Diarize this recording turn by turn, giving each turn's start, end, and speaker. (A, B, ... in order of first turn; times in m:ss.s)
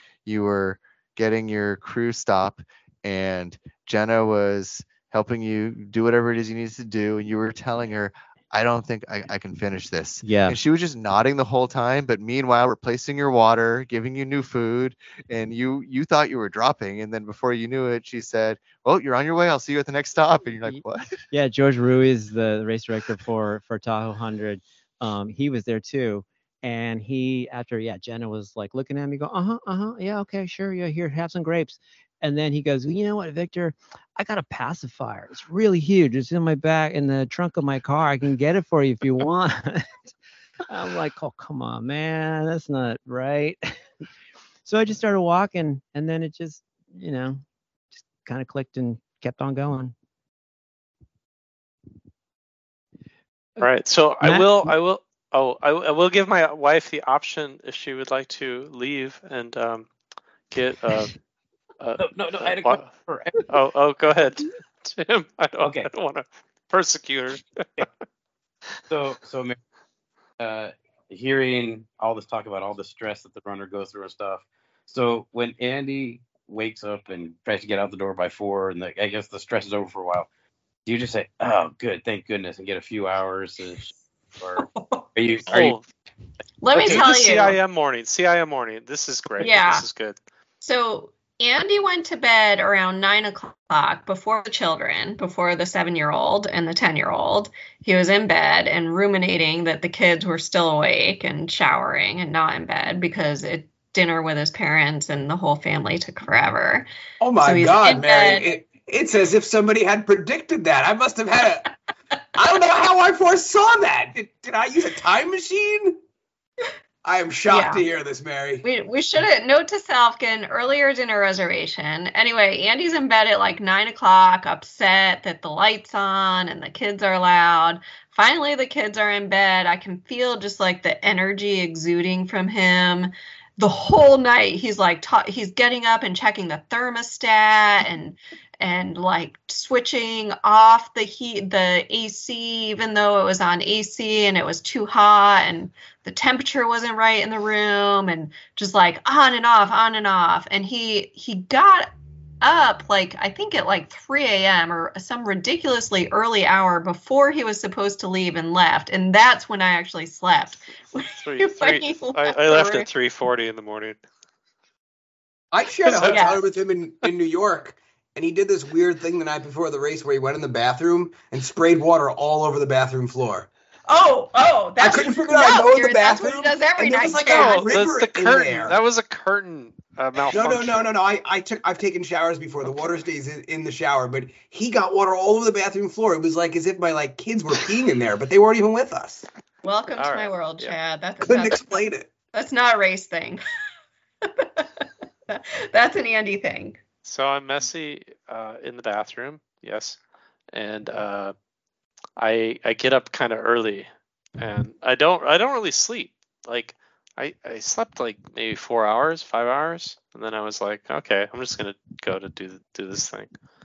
0:00.2-0:21.2 A
0:10.2-0:10.6 B
0:20.6-0:40.0 B
0:40.7-0:43.6 B
0:44.6-0:47.4 B
0:47.9-0:49.9 B
0:53.6-0:59.9 C
0:54.2-0:54.7 B
1:00.5-1:01.1 C
1:01.8-1:02.8 C
1:02.0-1:03.5 D
1:03.4-1:07.9 C
1:05.6-1:05.9 D
1:08.9-1:09.6 D
1:10.4-1:20.3 D
1:20.8-1:25.8 D
1:25.5-1:25.8 C
1:26.6-1:27.6 E
1:26.7-1:30.2 C
1:29.4-1:29.8 E
1:30.6-1:46.9 E
1:47.2-1:51.7 F
1:47.4-1:48.5 E
1:52.3-1:56.0 F
1:57.0-1:58.6 F
1:57.5-1:57.8 E
1:58.6-2:42.9 E
2:41.2-2:44.0 C
2:45.5-2:53.5 F
2:45.8-2:46.4 E
2:45.9-2:46.2 C
2:53.9-2:57.8 E
2:54.8-2:58.8 F
2:57.3-3:00.9 C
3:00.3-3:09.3 F
3:09.6-3:11.6 E
3:10.0-3:10.7 C
3:11.2-3:12.1 F
3:12.3-3:13.4 E
3:14.2-3:16.8 E
3:17.0-3:20.0 C
3:20.5-3:21.3 C
3:22.2-3:33.3 C